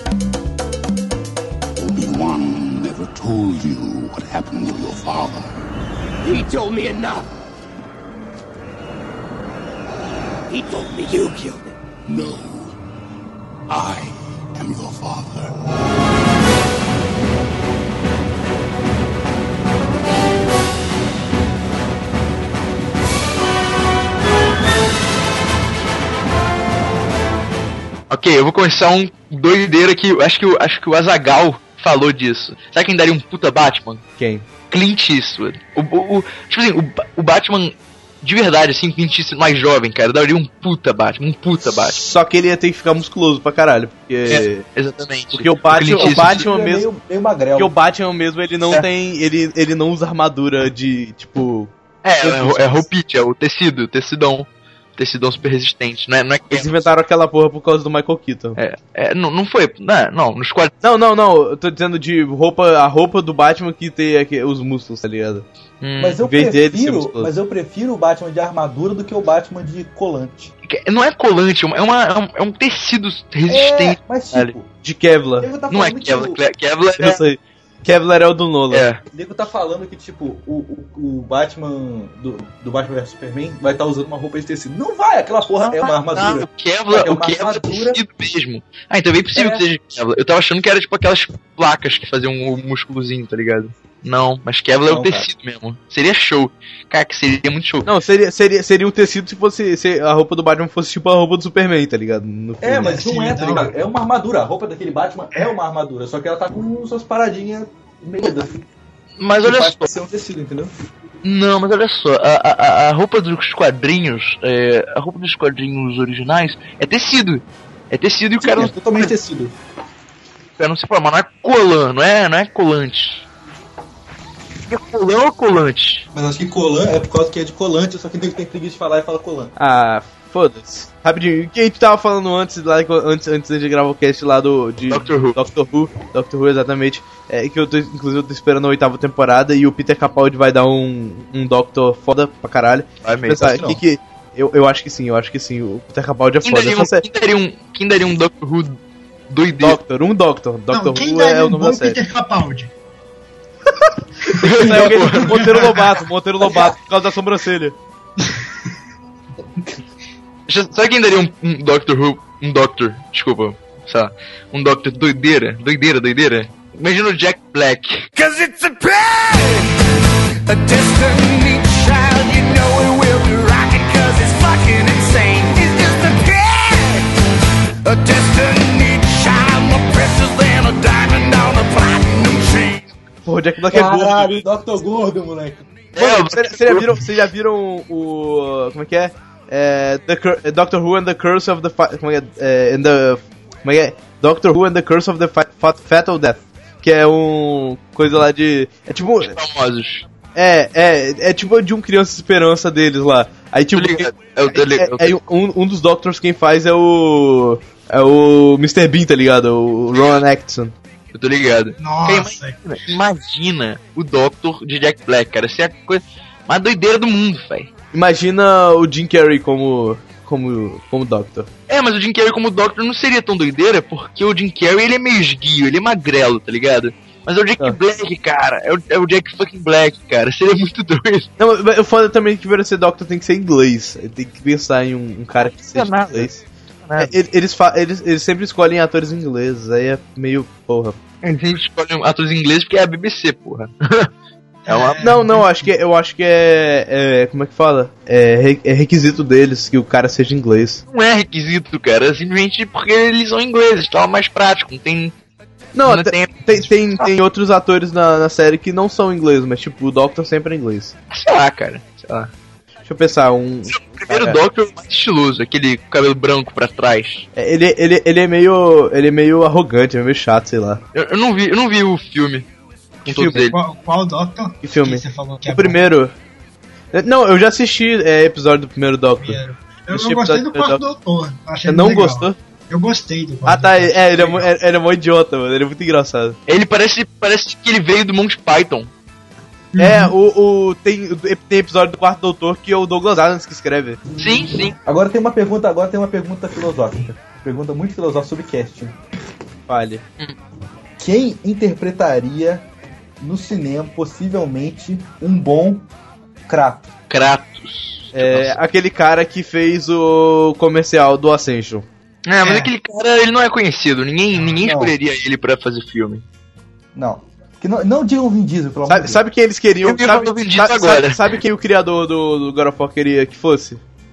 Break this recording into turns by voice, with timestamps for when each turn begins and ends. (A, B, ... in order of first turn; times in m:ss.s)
0:01.8-0:05.6 A
0:06.3-0:07.3 B
0:10.5-0:11.8 B
0:12.0-0:12.8 A
0:13.7-0:15.6 A
0:28.1-0:34.0 C
0:34.2-0:34.4 D
0:34.7-0:42.0 C
0:41.9-0:44.6 D
0:44.3-0:46.4 C
0:45.3-0:46.9 D
0:46.0-0:47.7 E
0:47.6-0:52.9 D
0:52.0-0:56.9 C
0:56.5-0:58.6 D
0:58.6-1:00.7 C
1:00.8-1:05.5 D
1:05.8-1:06.2 C
1:06.0-1:10.5 E
1:06.2-1:07.3 D
1:10.6-1:14.5 C
1:13.5-1:14.7 E
1:14.8-1:15.5 D
1:15.4-1:16.4 E
1:15.7-1:17.2 C
1:17.0-1:18.9 D
1:18.7-1:19.0 C
1:19.1-1:28.0 E
1:25.6-1:37.9 C
1:29.3-1:29.6 E
1:34.8-1:35.3 E
1:37.8-1:43.0 D
1:42.6-1:48.6 E
1:42.8-1:43.7 F
1:49.2-1:49.9 C
1:49.4-1:50.7 E
1:51.2-1:59.1 C
1:58.4-1:59.6 E
2:00.6-2:03.2 C
2:04.7-2:06.1 C
2:06.1-2:09.5 E
2:09.6-2:27.0 D
2:14.9-2:15.4 C
2:23.0-2:23.6 C
2:23.4-2:23.8 E
2:26.4-2:29.8 C
2:29.6-2:32.0 D
2:30.7-2:32.7 F
2:34.4-2:37.8 D
2:34.4-2:35.5 C
2:34.6-2:35.3 E
2:35.4-2:35.8 F
2:36.4-2:36.8 E
2:40.5-2:48.1 C
2:48.2-2:49.7 B
2:50.5-2:57.1 B
2:57.8-3:02.9 B
3:03.3-3:04.4 D
3:03.7-3:05.7 E
3:06.0-3:07.1 C
3:06.0-3:19.4 D
3:19.2-3:20.1 C
3:20.4-3:30.7 D
3:23.8-3:25.2 C
3:31.1-3:37.7 C
3:31.8-3:32.6 F
3:37.9-3:41.5 D
3:41.7-3:51.3 C
3:51.4-3:56.4 D
3:55.4-3:56.3 C
3:56.9-3:57.1 C
3:57.0-4:01.0 D
4:01.2-4:04.1 C
4:04.7-4:05.7 F
4:04.7-4:05.1 C
4:05.0-4:10.8 D
4:10.9-4:15.1 C
4:15.8-4:20.9 D
4:15.9-4:17.1 C
4:21.1-4:22.3 C
4:22.9-4:24.4 D
4:23.7-4:27.3 C
4:27.4-4:30.8 D
4:30.9-4:32.5 C
4:33.0-4:33.6 C
4:33.1-4:33.5 D
4:33.5-4:35.8 F
4:34.6-4:36.1 D
4:36.9-4:39.4 D
4:39.2-4:44.5 F
4:39.9-4:40.8 D
4:41.7-4:42.4 D
4:43.4-4:46.4 D
4:46.5-4:48.9 C
4:49.7-4:50.1 F
4:49.8-4:54.0 D
4:54.2-4:54.8 C
4:54.8-4:59.0 E
4:59.7-5:00.0 D
5:01.0-5:02.7 E
5:03.2-5:05.9 E
5:06.5-5:06.9 E
5:07.1-5:08.6 C
5:08.1-5:11.9 D
5:12.3-5:16.2 C
5:12.4-5:12.7 F
5:14.6-5:15.0 E
5:16.9-5:19.2 E
5:18.9-5:23.8 D
5:19.8-5:21.4 C